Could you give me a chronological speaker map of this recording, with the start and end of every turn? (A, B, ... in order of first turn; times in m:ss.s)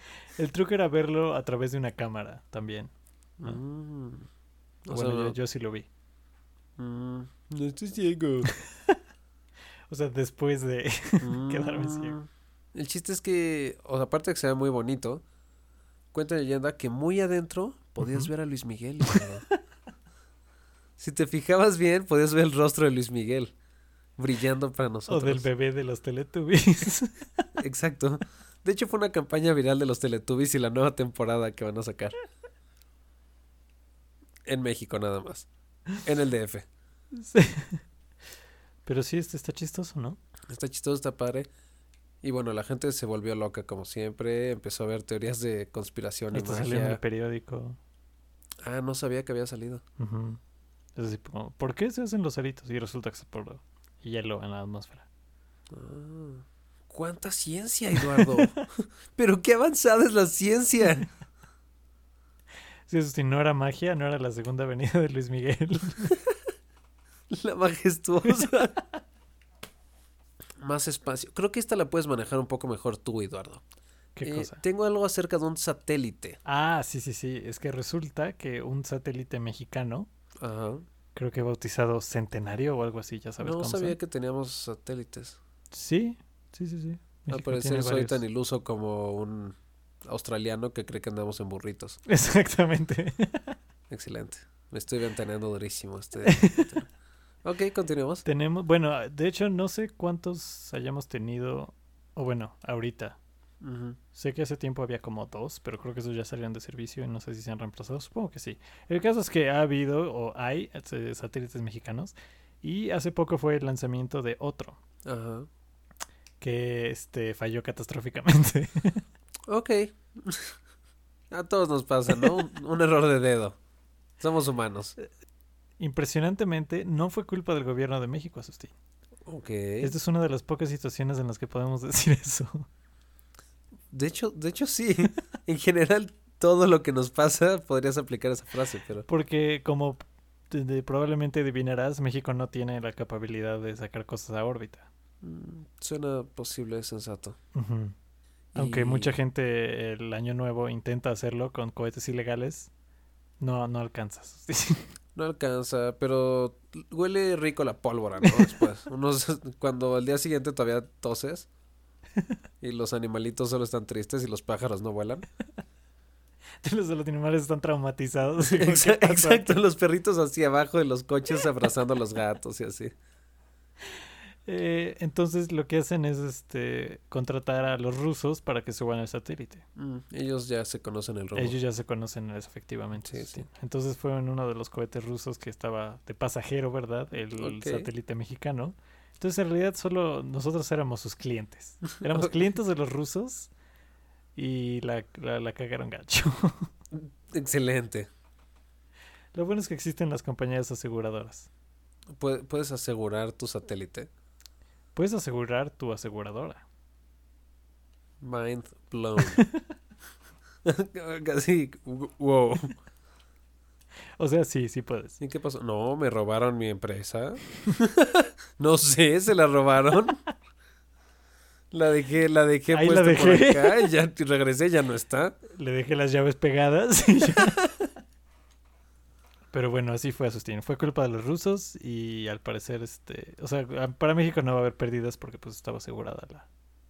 0:00.4-0:02.9 A
0:03.4-0:04.3 B
0:04.8-0:05.4 B
0:04.9-0:05.9 A
0:06.8-0:08.5 B
0:08.5-0:08.9 A
0:09.9-0:12.2 A
0:11.2-0:15.2 B
0:16.1-0:19.4 B
0:18.0-0:18.3 A
0:21.0-0:23.5 B
0:24.2-0:25.5 B
0:25.1-0:27.5 A
0:27.6-0:32.2 B
0:34.4-0:35.5 B
0:36.0-0:36.6 B
0:37.2-0:37.8 A
0:38.8-0:40.2 A
0:40.5-0:41.5 B
0:42.2-0:47.0 B
0:46.3-0:47.8 A
0:48.6-0:49.8 B
0:50.0-0:50.4 A
0:51.0-0:55.0 A
0:55.7-1:01.1 B
0:58.0-0:58.6 A
1:02.9-1:06.1 A
1:07.3-1:08.8 B
1:10.6-1:13.6 B
1:14.2-1:14.6 A
1:14.2-1:16.4 B
1:16.4-1:20.1 A
1:20.4-1:20.8 B
1:21.2-1:24.0 A
1:23.4-1:25.4 B
1:25.7-1:28.2 A
1:27.3-1:32.0 B
1:32.1-1:33.6 A
1:33.9-1:36.9 B
1:36.2-1:36.8 A
1:37.4-1:38.2 B
1:38.2-1:43.2 A
1:43.6-1:44.0 B
1:44.1-1:54.8 A
1:55.0-1:55.5 B
1:56.4-1:59.0 A
1:59.5-2:00.6 B
2:01.3-2:03.6 B
2:04.2-2:05.0 B
2:05.8-2:08.7 A
2:09.3-2:09.9 B
2:09.8-2:12.7 A
2:13.9-2:19.0 B
2:19.1-2:24.8 A
2:25.2-2:27.4 B
2:27.5-2:27.9 A
2:28.5-2:29.1 B
2:28.5-2:32.7 A
2:33.4-2:34.9 A
2:35.2-2:41.5 B
2:42.6-2:45.2 B
2:46.6-2:49.6 A
2:48.4-2:52.9 B
2:54.4-2:59.6 A
2:59.8-3:01.6 B
3:01.3-3:13.5 A
3:03.0-3:03.4 B
3:07.4-3:07.9 B
3:12.0-3:12.3 B
3:14.4-3:16.7 A
3:16.9-3:18.1 B
3:19.3-3:21.5 A
3:22.1-3:24.1 B
3:24.9-3:26.6 A
3:28.2-3:29.4 B
3:29.2-3:29.6 A
3:30.6-3:32.8 B
3:34.2-3:35.2 A
3:35.2-3:40.2 B
3:41.7-3:45.3 B
3:42.7-3:43.9 A
3:45.5-3:47.6 A
3:49.5-3:56.5 A